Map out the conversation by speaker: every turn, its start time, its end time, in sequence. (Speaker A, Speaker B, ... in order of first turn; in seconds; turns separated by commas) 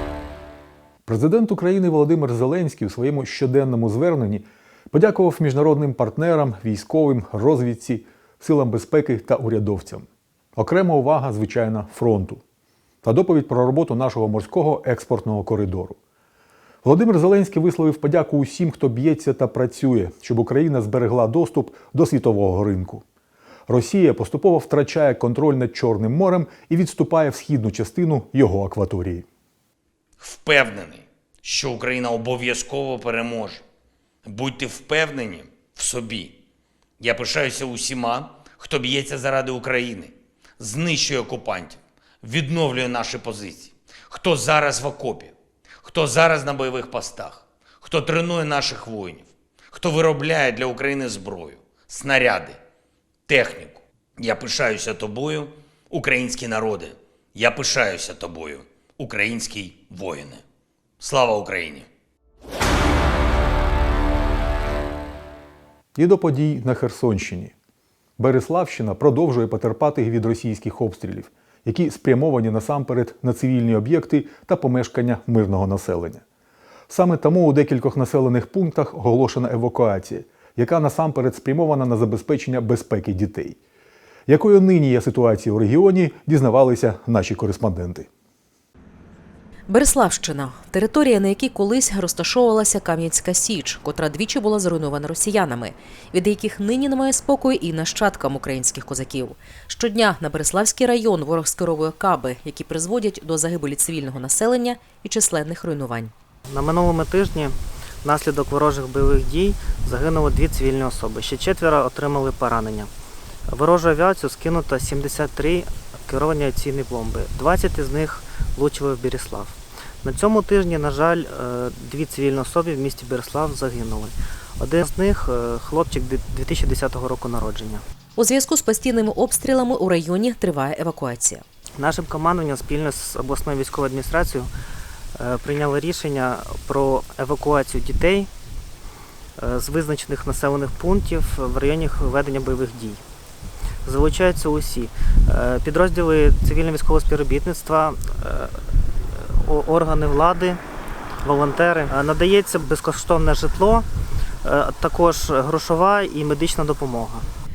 Speaker A: 1.1-10.1, Speaker A: 10.6-12.4, Speaker A: 13.0-16.0, Speaker A: 16.8-23.0, Speaker A: 23.7-29.2, Speaker B: 30.2-33.6, Speaker B: 34.2-36.3, Speaker B: 37.0-45.3, Speaker B: 45.8-52.6, Speaker B: 53.3-60.4, Speaker B: 61.0-61.9, Speaker A: 66.0-67.5, Speaker A: 68.2-76.2, Speaker A: 76.9-83.6, Speaker A: 84.3-88.1, Speaker C: 89.7-106.1, Speaker D: 106.5-107.5, Speaker D: 108.0-112.9, Speaker D: 113.5-127.8, Speaker C: 128.2-131.4, Speaker D: 131.8-134.5, Speaker D: 135.2-138.3, Speaker D: 139.4-143.0, Speaker D: 143.8-148.6, Speaker D: 149.4-150.6, Speaker D: 151.2-153.8, Speaker D: 154.4-157.2